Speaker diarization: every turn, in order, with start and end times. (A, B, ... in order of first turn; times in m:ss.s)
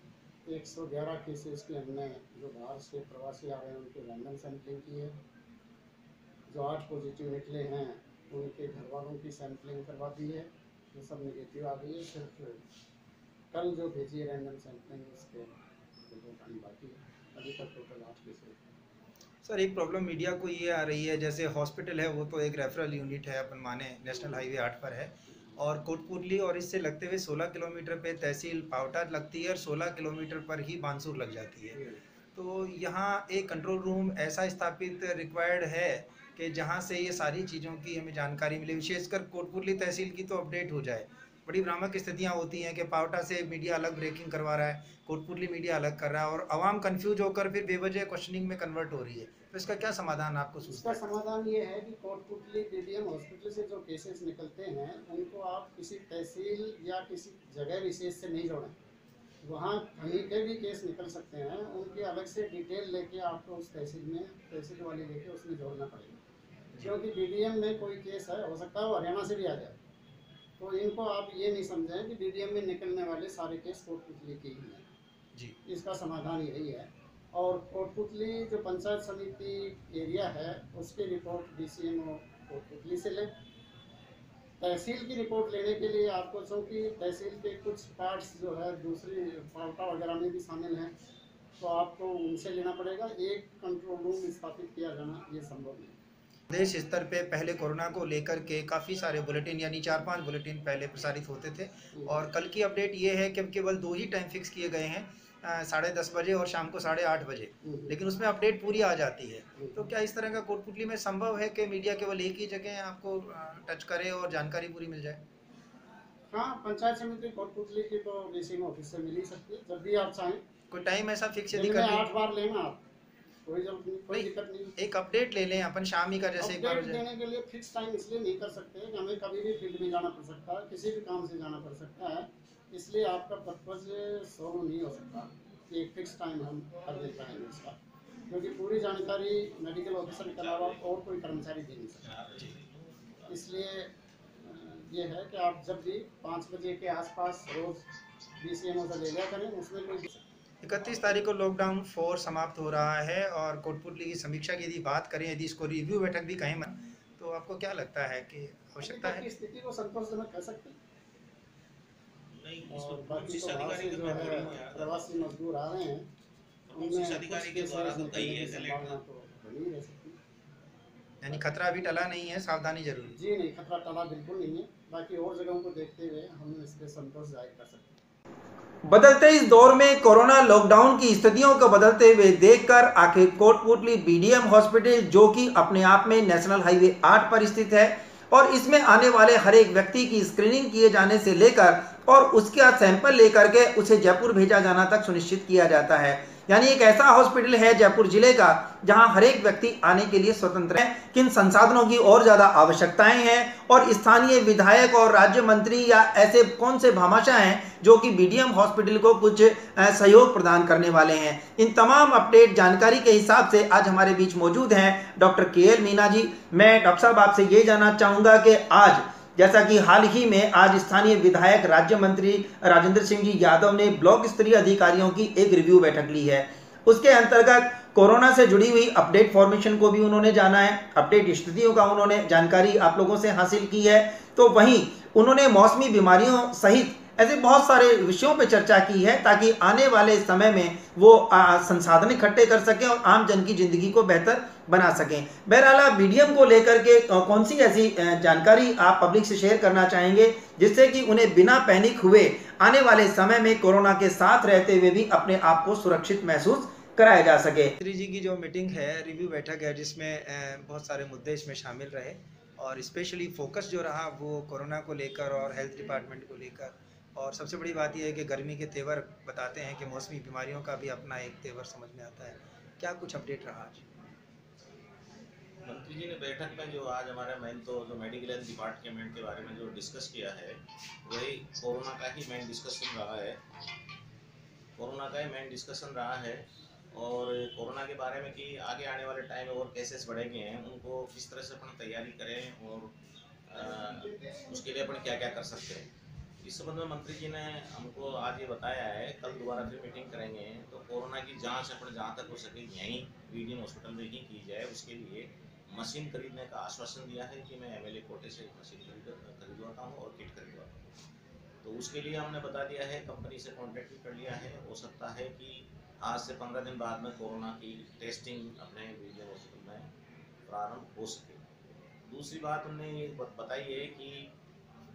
0:00.5-0:05.2 A
0:06.5-0:12.6 A
0:13.5-0:18.6 A
0:19.4-0:31.8 B
0:32.4-0:51.1 B
0:50.6-0:58.8 A
0:59.4-1:06.2 A
1:06.8-1:09.8 A
1:10.6-1:14.8 A
1:15.6-1:23.3 A
1:24.6-1:30.9 A
1:31.6-1:36.0 A
1:36.5-1:55.2 B
1:42.0-1:42.3 A
1:47.6-1:48.0 A
1:49.6-1:49.9 A
1:56.3-2:00.4 A
2:00.7-2:02.0 B
2:01.5-2:02.8 A
2:03.4-2:04.7 A
2:04.1-2:07.0 B
2:06.4-2:17.8 A
2:18.3-2:22.1 A
2:19.8-2:21.0 C
2:22.0-2:23.6 C
2:23.3-2:27.9 A
2:28.4-2:30.2 A
2:30.6-2:39.2 B
2:38.8-2:40.8 A
2:42.3-2:45.3 C
2:42.7-2:46.1 A
2:46.7-2:49.0 C
2:46.7-2:50.2 A
2:51.2-2:53.2 B
2:53.1-2:57.9 A
2:58.9-4:33.8 B
4:35.6-4:43.4 C
4:44.8-4:52.9 C
4:53.5-4:55.9 C
4:56.4-5:10.7 C
5:11.6-5:19.9 C
5:20.5-5:21.4 C
5:22.1-5:24.3 C